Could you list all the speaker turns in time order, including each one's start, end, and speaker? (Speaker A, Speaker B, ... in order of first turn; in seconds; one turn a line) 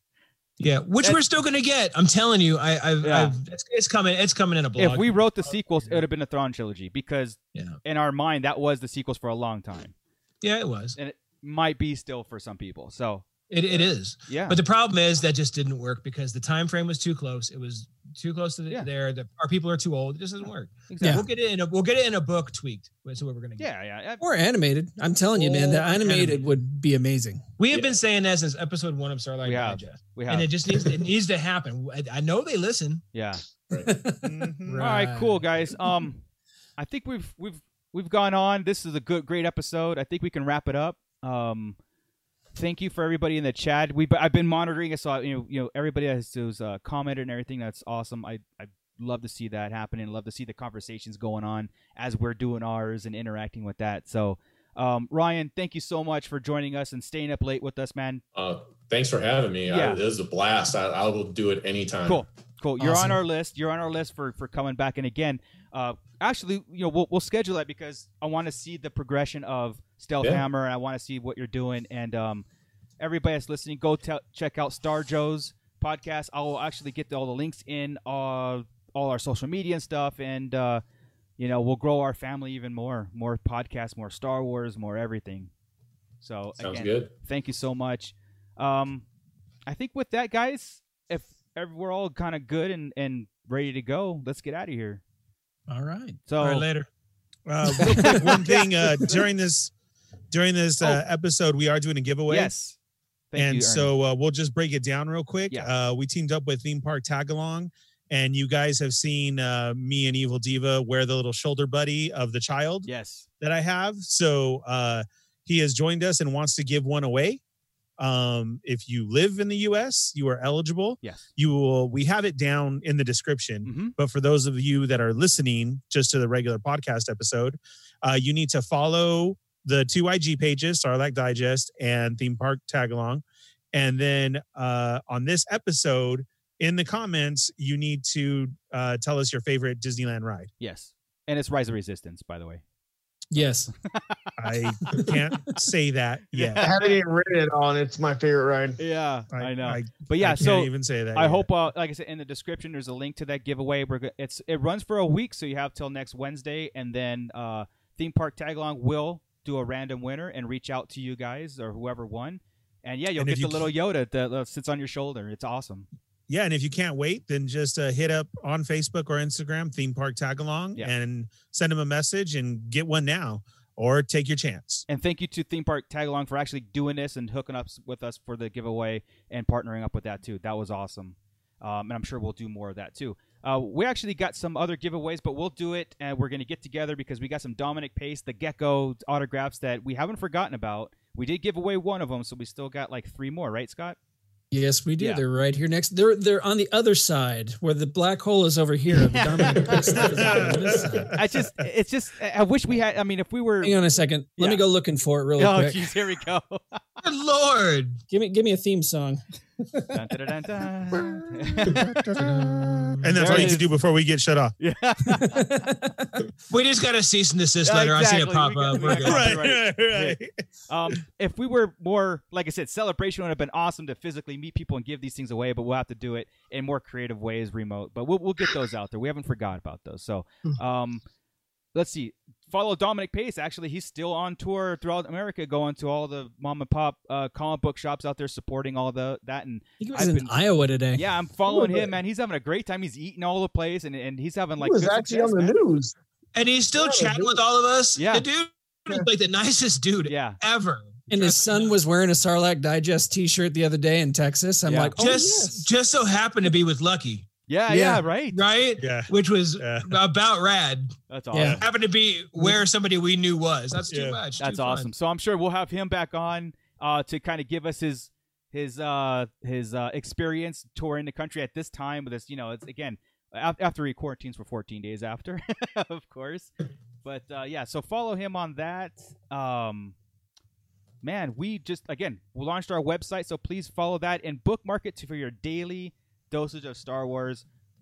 Speaker A: 0.6-6.0
Speaker B: 3.0-3.4
Speaker B: 4.8-9.9
Speaker A: 10.4-11.0
Speaker B: 11.0-14.6
Speaker A: 13.5-23.7
Speaker B: 20.9-21.2
Speaker C: 21.0-21.3
Speaker B: 23.6-24.2
Speaker C: 24.2-27.5
Speaker A: 25.3-26.4
Speaker A: 27.6-33.0
Speaker B: 29.4-30.5
Speaker B: 33.1-33.4
Speaker C: 33.9-35.5
Speaker D: 34.2-34.9
Speaker B: 34.8-36.2
Speaker B: 36.8-41.8
Speaker B: 42.5-58.2
Speaker E: 58.4-62.2
Speaker B: 59.7-60.0
Speaker B: 62.1-72.5
Speaker C: 62.8-63.1
Speaker B: 73.0-80.8
Speaker B: 81.4-85.5
Speaker B: 86.2-89.0
Speaker E: 86.6-87.1
Speaker B: 89.7-95.0
Speaker C: 95.7-96.3
Speaker B: 96.3-96.7
Speaker A: 96.4-96.9
Speaker D: 97.5-99.7
Speaker B: 97.8-99.2
Speaker C: 97.9-98.3
Speaker D: 100.3-102.5
Speaker B: 102.3-102.8
Speaker B: 103.3-103.9
Speaker D: 103.4-112.9
Speaker B: 112.9-113.3
Speaker D: 113.4-117.4
Speaker D: 118.0-140.5
Speaker B: 123.7-124.0
Speaker B: 140.6-142.6
Speaker C: 143.3-143.7
Speaker B: 143.8-144.2
Speaker D: 144.4-146.7
Speaker B: 146.3-147.0
Speaker F: 146.6-148.8
Speaker B: 148.8-165.9
Speaker D: 149.3-151.5
Speaker D: 163.2-163.7
Speaker D: 166.3-174.8
Speaker B: 174.9-194.0
Speaker C: 194.5-201.1
Speaker B: 199.0-200.4
Speaker D: 200.1-201.5
Speaker B: 201.1-203.8
Speaker C: 203.6-205.8
Speaker B: 204.4-204.7
Speaker B: 205.4-206.8
Speaker A: 207.0-208.0
Speaker C: 208.1-210.0
Speaker B: 209.9-211.9
Speaker D: 211.8-212.4
Speaker A: 212.2-213.1
Speaker D: 213.0-214.6
Speaker B: 213.2-213.7
Speaker B: 214.6-215.4
Speaker C: 215.1-216.3
Speaker A: 216.5-219.4
Speaker B: 217.6-231.0
Speaker D: 219.1-220.3
Speaker B: 231.8-240.4
Speaker C: 239.8-241.0
Speaker B: 240.9-245.5
Speaker F: 241.5-241.9
Speaker F: 244.6-245.9
Speaker A: 246.3-251.7
Speaker F: 246.8-247.4
Speaker B: 248.0-248.3
Speaker B: 250.1-250.4
Speaker C: 251.1-255.7
Speaker B: 254.7-254.9
Speaker A: 255.0-257.3
Speaker B: 257.5-258.4
Speaker C: 257.7-258.0
Speaker A: 258.3-261.0
Speaker D: 258.8-260.0
Speaker B: 261.1-261.6
Speaker C: 261.3-261.6
Speaker A: 261.6-264.9
Speaker D: 263.9-264.2
Speaker B: 264.4-276.5
Speaker B: 277.0-279.9
Speaker B: 281.0-287.4